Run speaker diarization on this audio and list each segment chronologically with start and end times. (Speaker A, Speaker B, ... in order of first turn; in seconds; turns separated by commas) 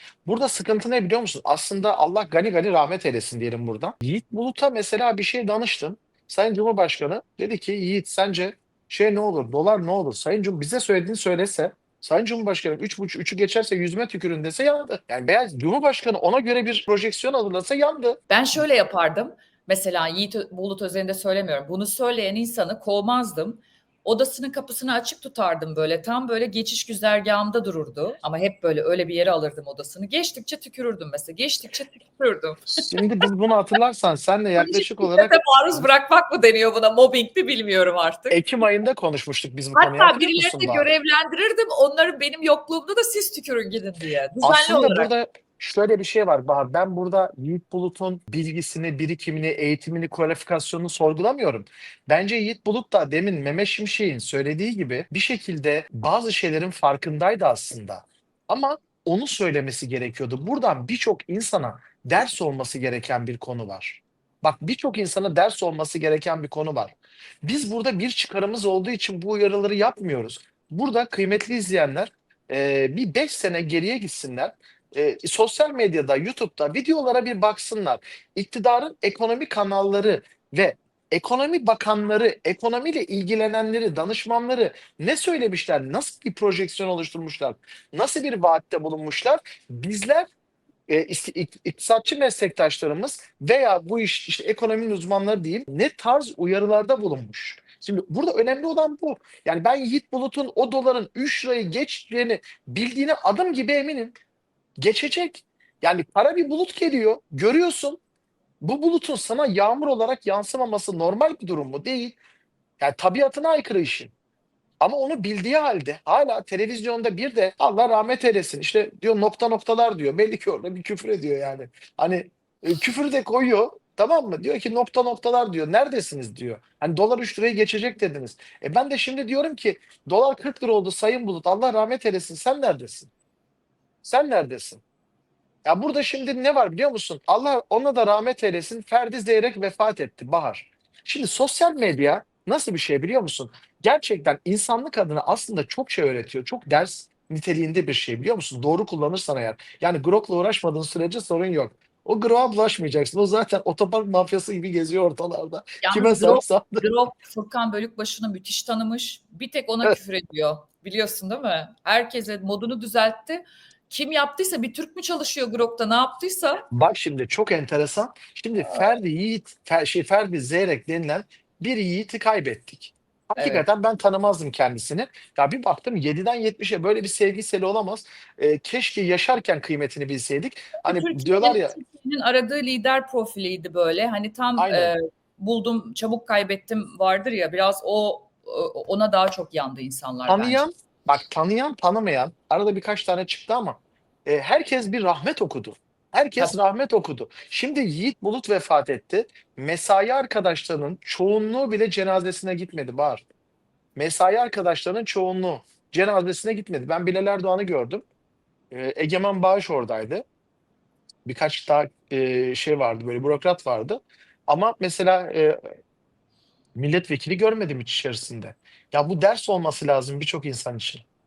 Speaker A: 0.3-18.2, Speaker B: 18.3-32.8, Speaker A: 32.9-35.9, Speaker B: 34.6-38.4, Speaker A: 38.3-40.9, Speaker B: 39.8-45.1, Speaker A: 44.4-90.3, Speaker A: 90.9-104.2, Speaker A: 104.8-108.0, Speaker A: 108.6-112.2, Speaker A: 112.8-114.1, Speaker A: 114.8-133.1, Speaker A: 134.0-134.8, Speaker A: 135.7-156.8, Speaker B: 155.8-166.7, Speaker A: 166.7-181.8, Speaker B: 173.4-173.7, Speaker B: 180.8-190.6, Speaker A: 184.6-184.9, Speaker A: 190.3-203.2, Speaker A: 204.0-208.1, Speaker A: 208.7-210.2, Speaker A: 211.2-215.6, Speaker A: 216.8-221.1